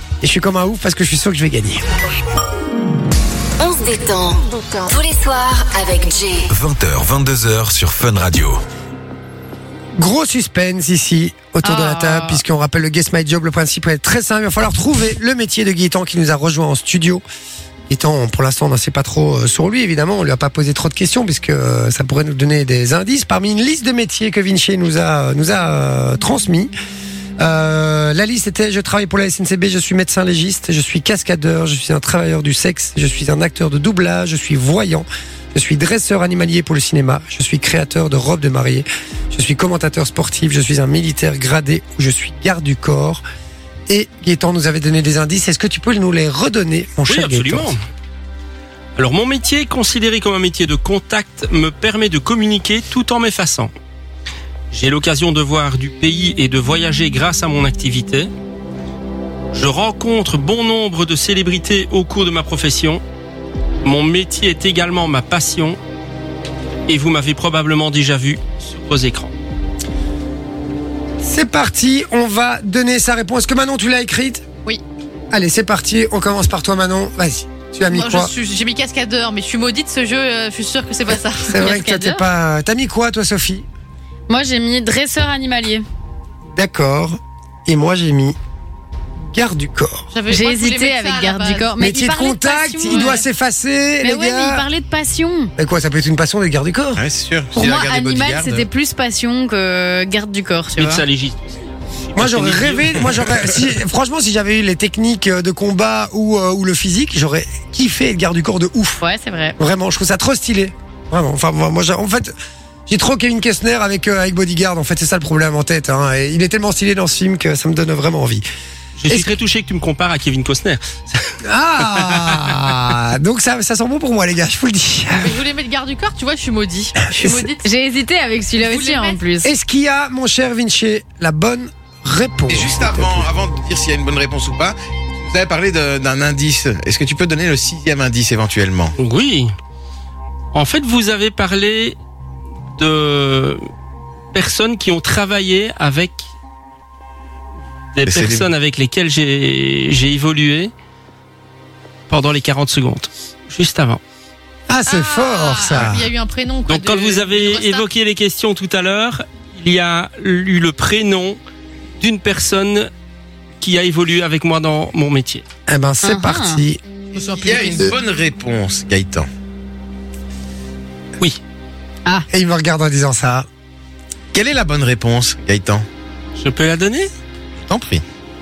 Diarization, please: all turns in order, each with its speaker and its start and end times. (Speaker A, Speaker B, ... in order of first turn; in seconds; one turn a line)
Speaker A: 0.2-1.8
Speaker B: 3.6-6.5
Speaker C: 6.5-8.6
Speaker A: 10.0-17.2
Speaker D: 11.6-12.4
Speaker A: 17.9-26.7
Speaker A: 27.4-43.2
Speaker A: 43.9-47.7
Speaker E: 47.1-47.8
Speaker E: 49.0-53.7
Speaker E: 54.7-58.3
Speaker E: 59.5-63.0
Speaker E: 63.8-65.8
Speaker E: 66.9-69.3
Speaker A: 71.2-74.4
Speaker A: 75.3-78.3
Speaker F: 77.9-81.6
Speaker A: 81.1-83.7
Speaker D: 81.5-82.2
Speaker D: 84.3-85.8
Speaker A: 86.5-88.3
Speaker A: 89.3-90.1
Speaker F: 90.1-91.7
Speaker D: 90.3-93.2
Speaker A: 91.8-94.7
Speaker D: 94.0-95.5
Speaker A: 95.6-97.0
Speaker G: 97.0-98.7
Speaker D: 97.5-101.0
Speaker E: 100.8-103.0
Speaker A: 102.2-109.0
Speaker G: 102.9-103.6
Speaker D: 109.0-109.6
Speaker A: 109.6-112.3
Speaker A: 112.9-118.4
Speaker E: 119.0-122.7
Speaker A: 119.1-119.3
Speaker A: 121.5-125.4
Speaker F: 125.2-127.6
Speaker A: 127.1-127.5
Speaker D: 127.6-129.5
Speaker F: 128.6-129.2
Speaker A: 129.4-133.3
Speaker G: 132.5-138.9
Speaker E: 139.0-139.5
Speaker E: 140.5-142.0
Speaker E: 142.8-143.6
Speaker E: 144.3-146.2
Speaker E: 147.9-150.7
Speaker G: 148.0-148.5
Speaker E: 152.1-154.0
Speaker A: 154.7-156.1
Speaker F: 154.9-157.9
Speaker E: 156.6-161.4
Speaker E: 162.0-162.9
Speaker E: 163.6-165.4
Speaker A: 165.7-166.8
Speaker D: 166.0-166.6
Speaker F: 167.1-168.0
Speaker G: 167.4-169.3
Speaker A: 172.3-173.4
Speaker G: 174.3-175.8
Speaker E: 176.4-177.1
Speaker G: 177.7-178.0